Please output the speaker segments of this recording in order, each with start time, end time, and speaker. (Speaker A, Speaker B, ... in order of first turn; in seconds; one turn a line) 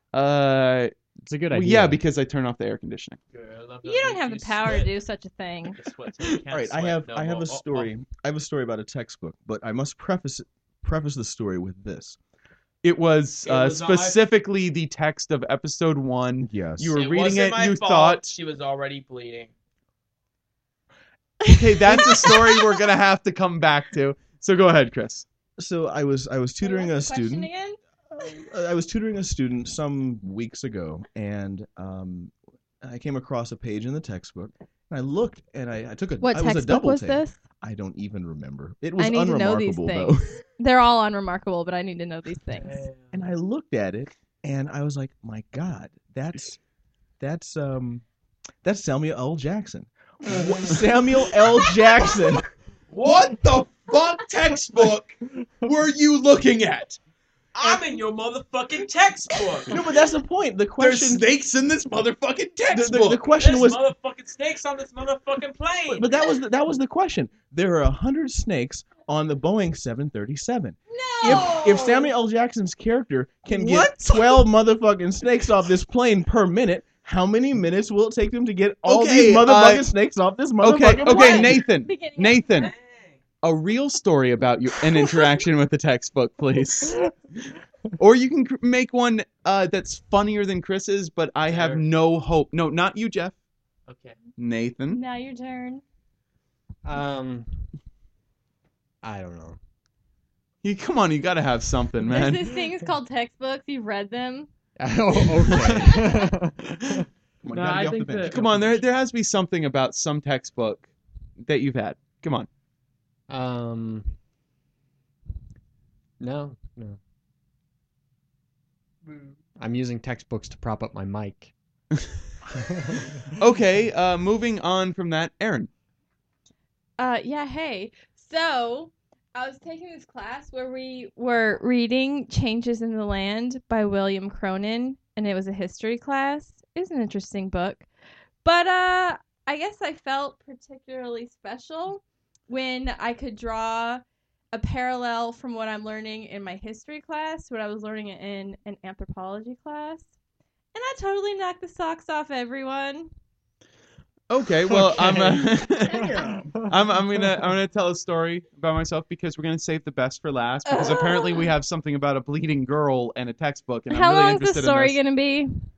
Speaker A: 0.1-0.9
Speaker B: 1.3-2.0
Speaker A: 1.5-3.2
Speaker C: 3.3-4.9
Speaker D: 3.8-5.8
Speaker C: 5.6-7.9
Speaker E: 6.5-12.2
Speaker A: 12.8-18.4
Speaker C: 13.4-14.2
Speaker E: 16.4-16.9
Speaker C: 16.9-19.5
Speaker D: 21.4-22.8
Speaker A: 21.5-25.2
Speaker E: 25.6-27.5
Speaker D: 26.6-27.8
Speaker E: 28.1-40.4
Speaker D: 36.2-37.3
Speaker D: 39.0-42.9
Speaker C: 42.5-43.3
Speaker E: 43.1-46.6
Speaker E: 47.2-48.0
Speaker E: 48.6-52.4
Speaker C: 52.9-53.3
Speaker A: 53.0-57.0
Speaker C: 57.5-59.8
Speaker E: 59.7-61.3
Speaker A: 60.8-63.2
Speaker E: 62.7-63.8
Speaker C: 63.3-66.1
Speaker E: 65.9-81.6
Speaker D: 70.9-72.1
Speaker A: 73.5-74.4
Speaker A: 78.8-79.9
Speaker A: 80.6-82.7
Speaker D: 81.0-82.7
Speaker C: 82.6-83.2
Speaker A: 83.4-87.0
Speaker A: 88.0-93.3
Speaker C: 91.5-91.8
Speaker C: 93.9-94.2
Speaker A: 94.4-95.0
Speaker D: 94.9-95.8
Speaker B: 96.8-97.7
Speaker B: 99.0-99.6
Speaker A: 100.6-102.5
Speaker D: 102.1-104.5
Speaker B: 104.8-107.0
Speaker D: 105.7-106.2
Speaker E: 107.4-108.7
Speaker C: 107.5-108.8
Speaker A: 108.2-110.8
Speaker A: 111.4-112.5
Speaker B: 113.3-114.2
Speaker B: 116.2-117.0
Speaker B: 119.6-121.5
Speaker B: 122.5-123.2
Speaker A: 123.4-125.7
Speaker D: 127.0-137.9
Speaker D: 138.4-150.1
Speaker D: 150.7-153.1
Speaker A: 154.3-165.0
Speaker B: 154.7-155.5
Speaker E: 155.8-156.6
Speaker B: 156.2-157.4
Speaker D: 160.7-161.5
Speaker D: 163.9-165.5